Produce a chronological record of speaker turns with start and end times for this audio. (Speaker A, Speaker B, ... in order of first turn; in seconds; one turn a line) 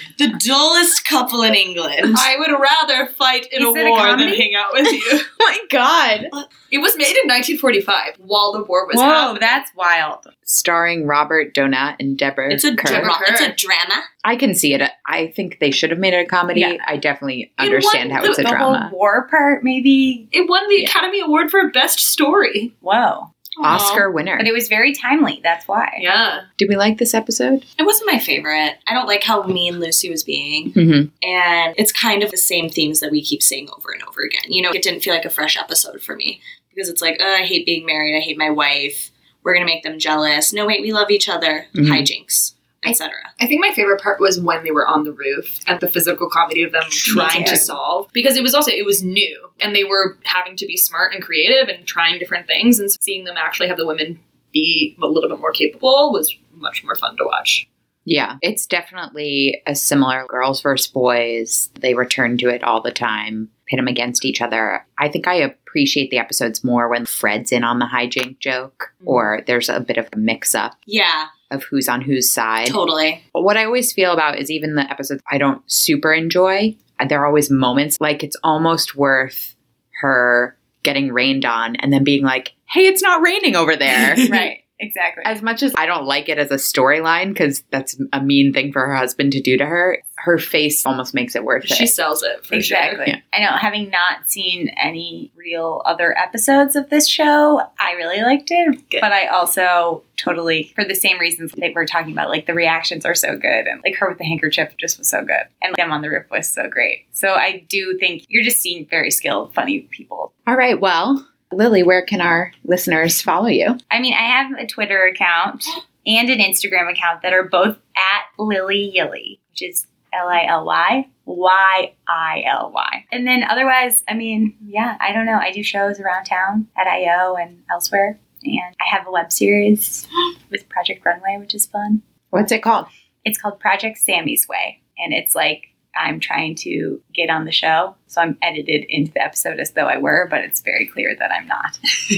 Speaker A: 0.1-2.3
Speaker B: 2.1-5.3
Speaker C: 3.6-4.5
Speaker D: 5.0-6.3
Speaker B: 6.7-9.6
Speaker C: 8.9-10.3
Speaker D: 10.4-13.1
Speaker A: 12.5-14.1
Speaker B: 12.8-13.6
Speaker D: 14.2-18.9
Speaker C: 16.5-16.8
Speaker B: 17.6-18.6
Speaker C: 18.4-20.3
Speaker B: 20.3-22.7
Speaker C: 22.8-23.3
Speaker D: 23.6-24.5
Speaker B: 23.6-24.0
Speaker C: 24.4-26.0
Speaker B: 26.0-26.5
Speaker D: 26.6-27.6
Speaker A: 27.8-43.3
Speaker D: 30.7-31.1
Speaker D: 41.8-42.1
Speaker B: 43.4-57.6
Speaker C: 47.0-47.7
Speaker A: 47.3-47.6
Speaker D: 58.0-70.8
Speaker A: 70.9-71.3
Speaker D: 71.5-72.8
Speaker A: 72.7-73.2
Speaker D: 73.3-84.5
Speaker C: 84.2-85.3
Speaker D: 85.2-91.9
Speaker B: 91.6-93.0
Speaker C: 92.5-110.3
Speaker D: 110.5-113.8
Speaker C: 113.9-132.0
Speaker D: 132.3-132.9
Speaker C: 133.2-141.8